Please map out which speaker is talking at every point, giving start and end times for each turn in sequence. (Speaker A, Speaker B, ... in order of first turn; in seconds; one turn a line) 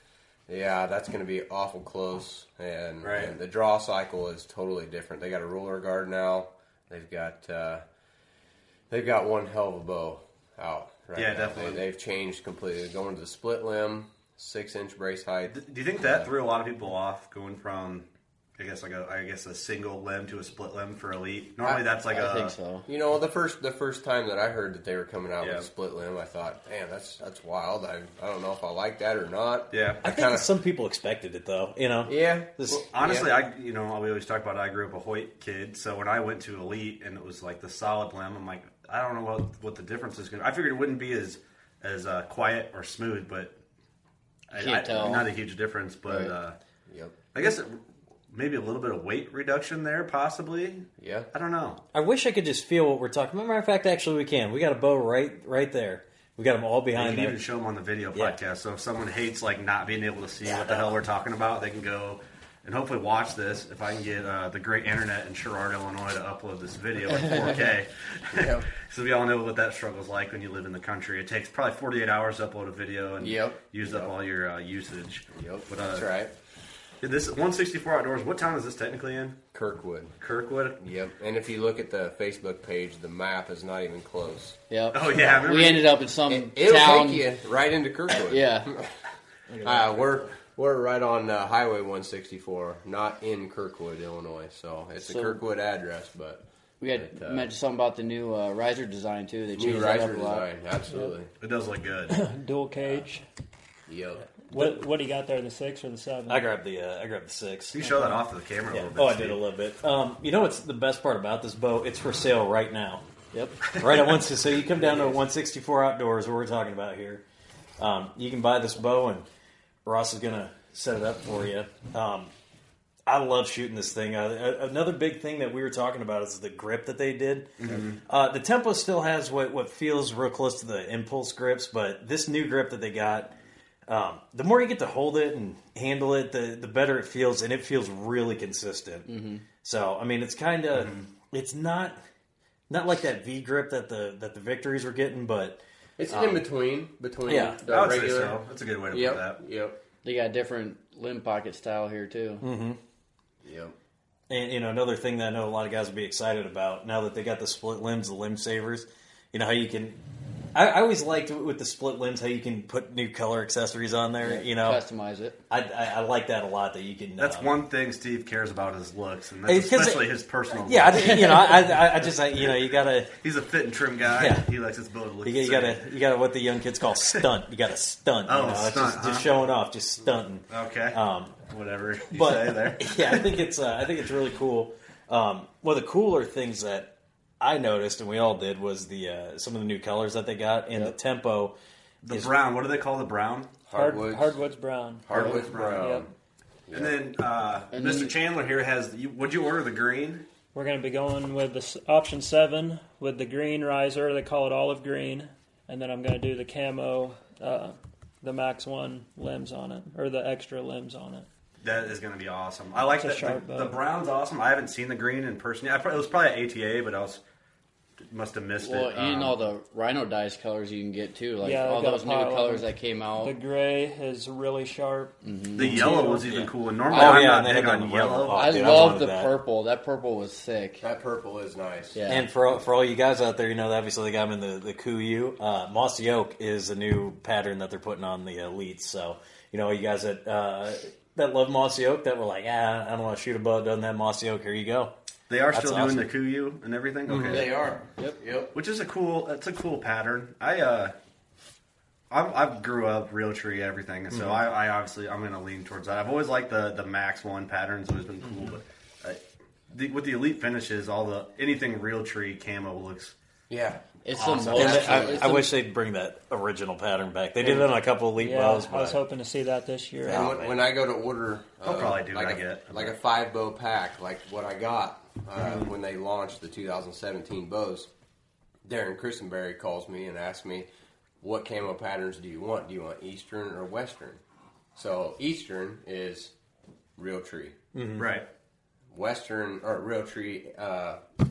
Speaker A: 0.5-7.8
Speaker B: 3.0-3.4
Speaker A: 8.9-15.6
Speaker B: 11.2-11.8
Speaker B: 15.5-22.6
Speaker C: 22.1-22.9
Speaker A: 22.9-30.5
Speaker B: 25.4-25.7
Speaker B: 29.7-30.0
Speaker D: 30.0-32.8
Speaker A: 32.1-33.3
Speaker B: 32.7-43.6
Speaker C: 44.5-45.3
Speaker B: 44.5-46.6
Speaker A: 46.9-47.2
Speaker B: 47.3-51.8
Speaker A: 51.0-51.3
Speaker D: 51.9-57.4
Speaker B: 56.9-76.1
Speaker D: 60.5-61.0
Speaker A: 68.3-68.7
Speaker A: 73.2-74.1
Speaker A: 75.3-76.3
Speaker B: 77.0-79.4
Speaker A: 79.5-80.2
Speaker B: 80.2-80.8
Speaker A: 80.8-84.6
Speaker C: 84.7-87.3
Speaker B: 84.9-85.9
Speaker A: 86.3-89.0
Speaker C: 88.2-88.7
Speaker A: 89.6-97.5
Speaker C: 95.0-95.4
Speaker C: 96.8-100.5
Speaker A: 99.5-101.3
Speaker B: 101.4-102.2
Speaker E: 102.1-103.2
Speaker A: 103.9-104.2
Speaker E: 104.5-106.5
Speaker D: 106.3-107.8
Speaker B: 107.7-109.4
Speaker E: 107.8-108.1
Speaker D: 108.7-113.0
Speaker C: 113.3-113.6
Speaker D: 113.7-117.2
Speaker C: 114.8-115.2
Speaker D: 117.8-119.3
Speaker D: 119.8-122.3
Speaker D: 123.1-127.5
Speaker B: 127.6-128.0
Speaker D: 128.1-133.4
Speaker D: 133.9-139.1
Speaker C: 139.1-139.4
Speaker D: 139.6-142.0
Speaker B: 140.8-141.1
Speaker D: 142.7-146.4
Speaker A: 146.0-149.8
Speaker D: 147.3-147.6
Speaker B: 147.7-149.4
Speaker C: 150.0-152.4
Speaker D: 152.4-152.8
Speaker A: 153.4-153.8
Speaker D: 154.3-160.0
Speaker D: 160.6-164.8
Speaker C: 164.2-165.4
Speaker D: 165.5-167.6
Speaker B: 167.2-171.3
Speaker D: 169.5-173.1
Speaker B: 173.1-175.9
Speaker D: 174.2-174.5
Speaker D: 175.2-181.4
Speaker B: 178.3-179.3
Speaker B: 180.5-183.4
Speaker D: 182.1-191.6
Speaker B: 192.0-193.5
Speaker A: 193.7-194.4
Speaker E: 193.7-196.1
Speaker A: 195.1-196.1
Speaker B: 195.2-195.9
Speaker A: 196.7-197.0
Speaker B: 196.7-200.3
Speaker C: 197.7-198.2
Speaker E: 200.5-211.3
Speaker B: 211.6-217.2
Speaker E: 212.9-213.8
Speaker B: 218.0-219.4
Speaker C: 218.6-223.4
Speaker E: 221.4-222.7
Speaker E: 223.2-226.3
Speaker C: 225.2-226.0
Speaker B: 225.6-229.0
Speaker D: 226.3-229.3
Speaker C: 226.9-227.4
Speaker C: 228.3-230.8
Speaker A: 230.8-232.0
Speaker C: 231.9-232.3
Speaker D: 232.1-244.9
Speaker B: 245.3-247.5
Speaker D: 245.5-246.1
Speaker A: 247.1-248.5
Speaker B: 248.6-250.9
Speaker B: 252.1-263.1
Speaker A: 263.5-265.3
Speaker C: 264.1-265.5
Speaker B: 264.1-264.8
Speaker D: 264.6-269.0
Speaker E: 268.1-270.3
Speaker D: 270.1-270.5
Speaker A: 270.1-277.9
Speaker B: 271.6-272.9
Speaker B: 275.4-275.7
Speaker A: 278.6-280.7
Speaker A: 281.2-284.2
Speaker A: 284.8-286.3
Speaker A: 287.0-287.6
Speaker D: 287.8-288.1
Speaker B: 288.0-288.3
Speaker A: 288.9-291.0